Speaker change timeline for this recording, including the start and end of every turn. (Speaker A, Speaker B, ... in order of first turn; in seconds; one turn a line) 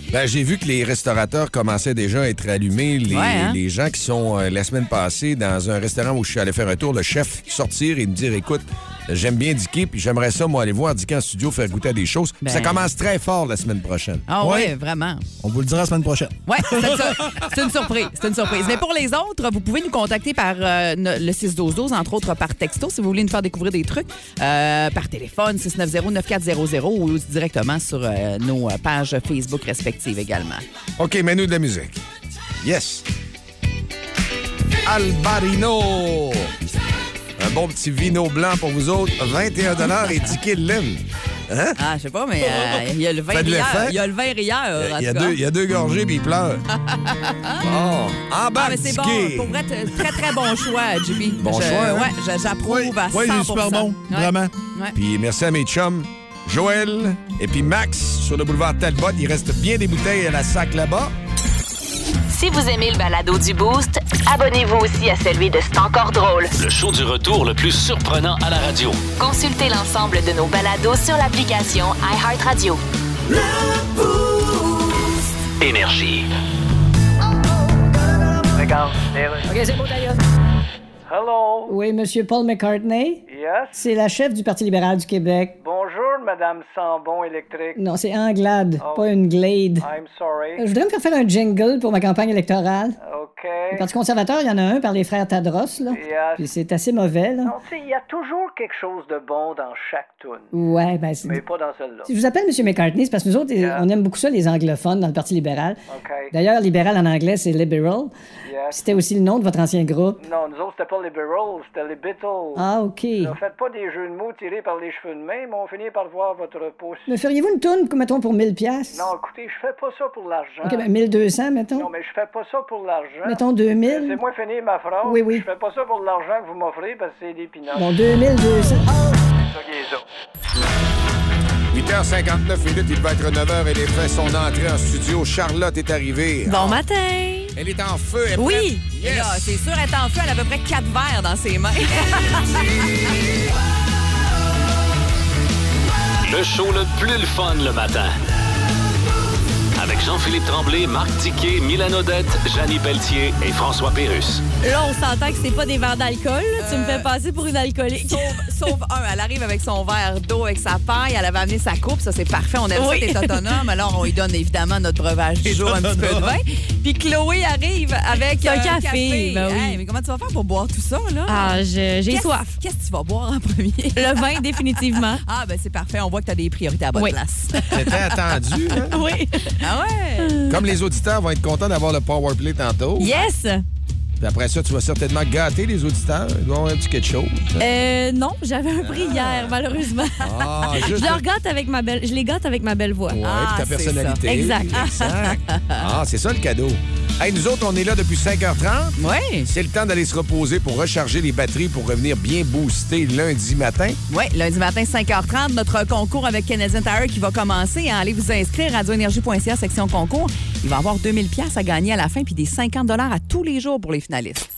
Speaker A: 0.1-14.3
Speaker B: 3.1-3.6
Speaker B: 12.4-12.9
Speaker B: 14.3-15.2
Speaker C: 14.4-14.7
Speaker C: 15.4-17.4
Speaker B: 16.5-30.6
Speaker A: 31.0-32.0
Speaker A: 32.6-33.1
Speaker A: 34.8-36.5
Speaker A: 37.4-41.8
Speaker B: 41.8-45.4
Speaker A: 42.4-44.0
Speaker A: 44.8-46.6
Speaker B: 46.7-47.7
Speaker A: 47.6-49.6
Speaker B: 48.6-55.0
Speaker A: 51.4-52.1
Speaker C: 52.7-54.5
Speaker A: 55.0-61.1
Speaker D: 62.3-66.5
Speaker E: 66.6-69.0
Speaker D: 69.2-72.8
Speaker E: 75.6-76.3
Speaker F: 78.6-79.5
Speaker G: 79.5-80.2
Speaker F: 81.1-81.8
Speaker G: 81.7-83.2
Speaker F: 83.3-83.8
Speaker G: 83.7-85.6
Speaker F: 85.6-87.8
Speaker G: 87.8-89.9
Speaker F: 88.8-89.2
Speaker F: 89.8-90.6
Speaker G: 90.6-93.0
Speaker F: 93.0-93.9
Speaker G: 93.7-97.5
Speaker F: 95.9-96.5
Speaker F: 97.4-100.5
Speaker G: 100.5-101.4
Speaker F: 101.2-102.1
Speaker G: 102.1-105.8
Speaker F: 103.6-103.9
Speaker F: 105.9-106.3
Speaker G: 106.3-108.1
Speaker F: 108.5-108.9
Speaker G: 108.7-110.2
Speaker F: 110.2-112.7
Speaker G: 112.6-113.3
Speaker F: 113.2-117.1
Speaker G: 117.1-119.1
Speaker F: 118.9-120.9
Speaker G: 120.6-121.9
Speaker F: 121.8-127.9
Speaker G: 123.2-124.2
Speaker G: 125.0-125.5
Speaker G: 127.8-128.9
Speaker F: 129.6-130.0
Speaker A: 131.7-136.8
Speaker B: 136.5-136.8
Speaker H: 136.5-137.6
Speaker A: 137.6-139.6
Speaker B: 138.4-142.7
Speaker H: 138.5-138.8
Speaker E: 146.2-148.2
Speaker E: 149.8-154.4
Speaker H: 154.6-158.5
Speaker B: 156.6-157.1
Speaker B: 158.1-178.0
Speaker H: 162.8-163.6
Speaker C: 165.4-166.3
Speaker H: 168.3-169.8
Speaker H: 171.3-172.6
Speaker H: 174.0-175.2
Speaker H: 176.9-177.9
Speaker A: 177.7-179.0
Speaker H: 178.8-180.6
Speaker B: 179.6-180.4
Speaker A: 180.5-183.1
Speaker H: 183.0-183.7
Speaker B: 183.0-183.3
Speaker A: 184.2-187.9
Speaker H: 187.6-193.2
Speaker A: 188.8-189.6
Speaker A: 190.2-191.2
Speaker A: 193.1-204.0
Speaker B: 193.2-194.2
Speaker H: 194.3-195.1
Speaker B: 195.0-195.8
Speaker B: 199.0-199.5
Speaker B: 204.1-214.5